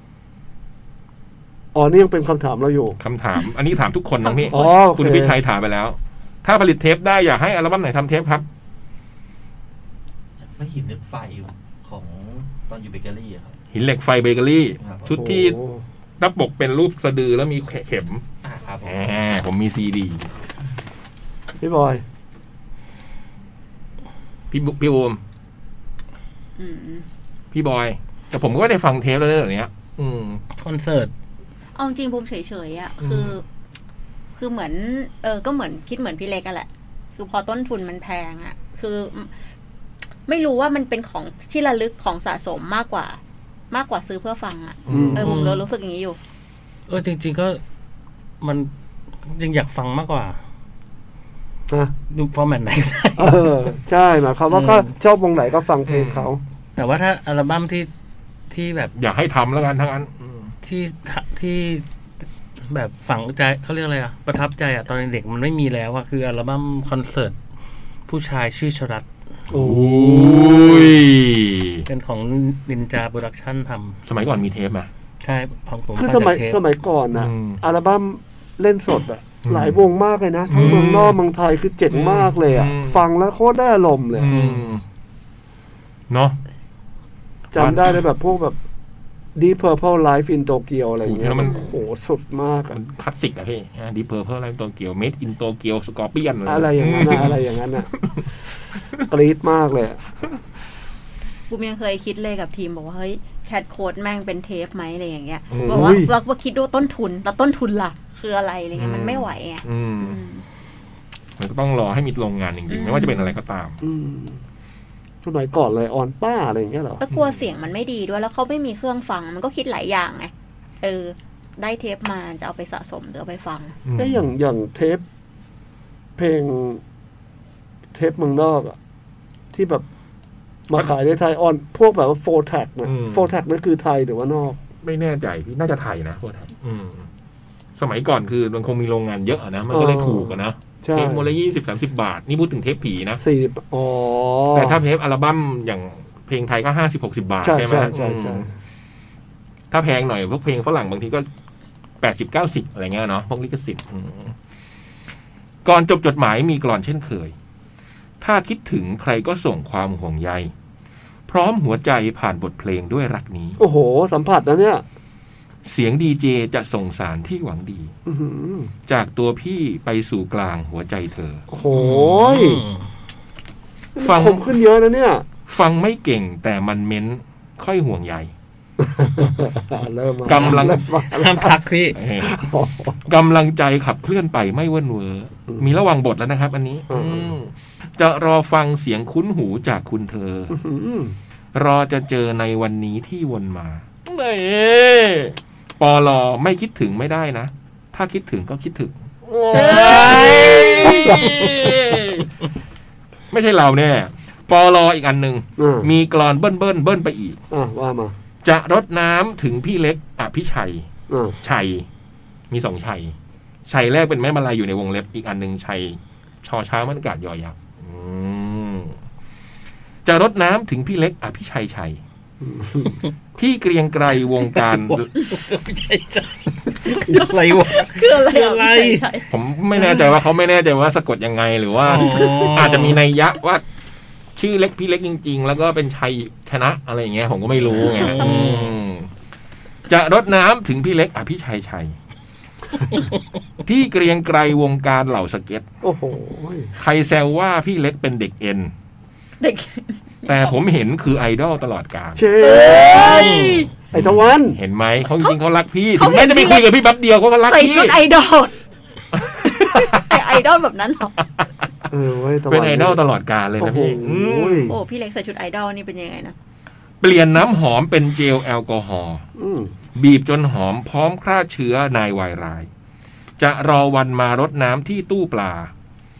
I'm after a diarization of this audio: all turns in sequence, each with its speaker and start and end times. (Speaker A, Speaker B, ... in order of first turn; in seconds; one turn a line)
Speaker A: 1.7-3.0
Speaker B: 3.0-8.4
Speaker C: 4.2-4.7
Speaker A: 4.5-5.4
Speaker D: 10.4-13.6
Speaker B: 13.7-15.6
Speaker D: 14.8-15.2
Speaker A: 15.1-15.8
Speaker B: 16.2-18.2
Speaker D: 18.4-19.0
Speaker B: 18.8-20.3
Speaker A: 21.6-22.0
Speaker B: 24.5-25.2
Speaker C: 26.6-27.1
Speaker B: 27.5-30.4
Speaker E: 30.6-31.1
Speaker C: 31.8-33.4
Speaker B: 33.0-33.3
Speaker C: 34.4-39.3
Speaker C: 40.3-43.2
Speaker C: 43.7-46.2
Speaker B: 44.9-45.2
Speaker A: 44.9-45.4
Speaker E: 45.2-45.6
Speaker E: 46.9-47.6
Speaker E: 48.4-48.7
Speaker E: 49.2-50.4
Speaker A: 51.7-51.9
Speaker E: 52.1-53.4
Speaker A: 53.2-56.4
Speaker E: 54.5-54.9
Speaker B: 55.9-56.3
Speaker E: 56.8-57.9
Speaker E: 58.5-58.9
Speaker B: 59.0-60.5
Speaker E: 60.6-61.9
Speaker E: 62.6-67.4
Speaker E: 68.1-69.1
Speaker A: 69.5-71.0
Speaker B: 69.5-71.9
Speaker E: 71.9-74.0
Speaker B: 74.1-74.9
Speaker E: 75.2-76.6
Speaker A: 76.0-84.3
Speaker B: 77.1-77.6
Speaker B: 79.5-79.8
Speaker B: 80.5-81.2
Speaker B: 81.9-83.0
Speaker B: 84.1-84.8
Speaker E: 84.3-84.8
Speaker B: 86.1-86.4
Speaker A: 87.5-88.6
Speaker B: 87.5-88.0
Speaker A: 89.4-92.8
Speaker B: 91.0-91.7
Speaker B: 92.7-98.3
Speaker A: 96.5-97.9
Speaker A: 99.1-100.0
Speaker C: 101.5-110.4
Speaker B: 105.5-106.0
Speaker A: 105.6-106.1
Speaker B: 108.8-110.2
Speaker B: 111.4-113.8
Speaker C: 112.7-113.3
Speaker A: 113.8-114.4
Speaker A: 115.2-117.0
Speaker C: 117.0-123.8
Speaker B: 117.1-117.4
Speaker B: 123.8-124.3
Speaker A: 124.0-125.0
Speaker A: 126.2-126.8
Speaker A: 127.9-128.8
Speaker A: 129.5-129.9
Speaker A: 130.7-134.6
Speaker B: 132.8-133.3
Speaker B: 134.8-137.1
Speaker B: 137.8-143.2
Speaker A: 139.7-141.3
Speaker A: 143.2-144.8
Speaker B: 144.5-148.5
Speaker A: 147.4-148.5
Speaker B: 149.7-151.3
Speaker B: 152.0-154.3
Speaker B: 155.7-157.3
Speaker B: 158.2-160.5
Speaker B: 161.3-163.6
Speaker A: 163.6-164.8
Speaker B: 165.7-167.9
Speaker A: 168.1-168.7
Speaker B: 168.9-171.4
Speaker A: 171.5-172.6
Speaker E: 171.7-172.9
Speaker A: 174.0-175.3
Speaker B: 174.0-174.5
Speaker B: 175.5-178.3
Speaker A: 178.8-181.6
Speaker B: 180.3-180.8
Speaker E: 180.3-182.0
Speaker B: 181.9-182.4
Speaker A: 182.2-183.0
Speaker B: 183.1-190.6
Speaker A: 186.9-187.3
Speaker A: 190.5-191.2
Speaker B: 191.6-202.3
Speaker C: 199.5-201.2
Speaker A: 199.8-201.7
Speaker B: 203.3-207.4
Speaker A: 205.6-205.9
Speaker A: 207.5-208.2
Speaker B: 208.4-210.9
Speaker A: 211.1-211.4
Speaker B: 211.4-211.9
Speaker B: 212.5-213.2
Speaker B: 213.7-218.9
Speaker B: 220.1-222.0
Speaker A: 222.4-223.0
Speaker B: 223.4-225.1
Speaker E: 224.6-229.0
Speaker C: 226.9-230.2
Speaker B: 229.3-233.6
Speaker E: 231.8-233.0
Speaker B: 234.4-239.1
Speaker E: 237.7-238.8
Speaker B: 239.9-242.0
Speaker B: 243.7-245.7
Speaker A: 245.8-246.7
Speaker B: 246.8-248.7
Speaker C: 249.4-250.6
Speaker B: 250.3-252.2
Speaker A: 252.2-254.6
Speaker C: 252.4-253.7
Speaker E: 253.1-253.7
Speaker B: 253.9-258.0
Speaker C: 256.0-256.7
Speaker C: 257.5-258.6
Speaker B: 259.1-260.0
Speaker C: 259.4-261.2
Speaker A: 261.9-263.0
Speaker B: 262.5-264.8
Speaker A: 263.6-264.8
Speaker C: 264.7-266.4
Speaker B: 267.0-269.2
Speaker A: 269.4-269.7
Speaker B: 269.9-272.7
Speaker B: 273.4-275.7